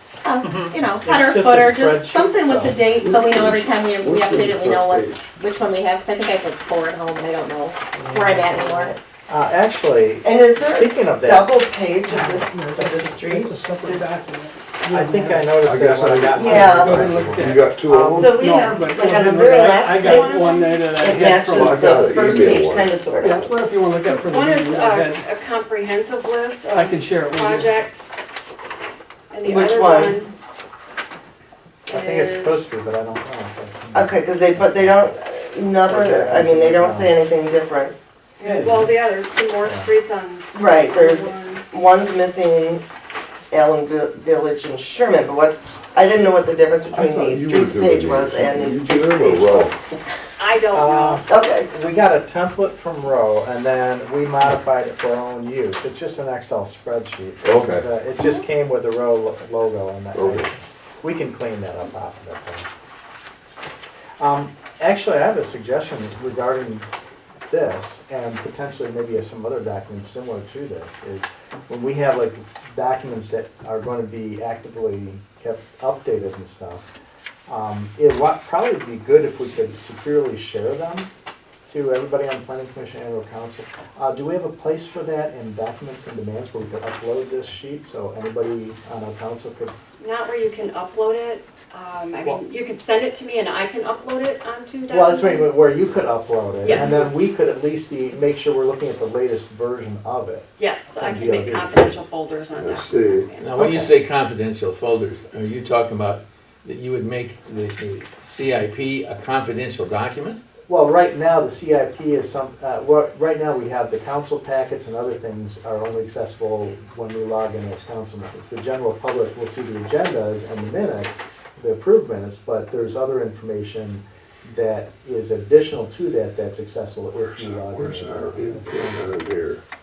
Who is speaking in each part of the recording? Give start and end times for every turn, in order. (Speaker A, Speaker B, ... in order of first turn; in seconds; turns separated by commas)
Speaker A: 0.2-8.9, Speaker B: 1.0-2.9, Speaker C: 2.9-5.2, Speaker D: 8.0-9.0, Speaker B: 9.3-11.5, Speaker D: 10.2-14.1, Speaker B: 14.8-17.7, Speaker E: 14.9-15.2, Speaker C: 15.6-18.7, Speaker D: 16.3-17.0, Speaker E: 17.1-17.4, Speaker D: 18.0-23.6, Speaker E: 18.1-22.0, Speaker F: 20.0-21.1, Speaker C: 21.5-23.0, Speaker E: 23.2-25.2, Speaker F: 24.0-28.3, Speaker E: 26.8-27.7, Speaker F: 29.3-30.3, Speaker D: 29.4-30.2, Speaker F: 31.9-32.6, Speaker B: 31.9-35.1, Speaker D: 33.9-37.9, Speaker B: 35.8-37.1, Speaker F: 38.4-41.6, Speaker B: 38.4-38.9, Speaker B: 39.6-39.9, Speaker D: 40.5-42.8, Speaker D: 43.5-49.8, Speaker C: 46.9-49.7, Speaker F: 50.4-51.2, Speaker B: 50.7-62.7, Speaker D: 51.3-51.7, Speaker C: 57.4-57.9, Speaker C: 60.1-60.5, Speaker B: 64.2-66.8, Speaker B: 67.5-76.8, Speaker B: 77.5-81.1, Speaker B: 81.7-89.7, Speaker F: 90.0-95.5, Speaker B: 94.9-101.8, Speaker F: 96.6-97.1, Speaker C: 96.7-97.1, Speaker F: 100.6-103.5, Speaker C: 102.6-103.3, Speaker G: 103.4-110.4, Speaker B: 103.6-103.9, Speaker B: 110.7-129.2, Speaker C: 127.2-129.6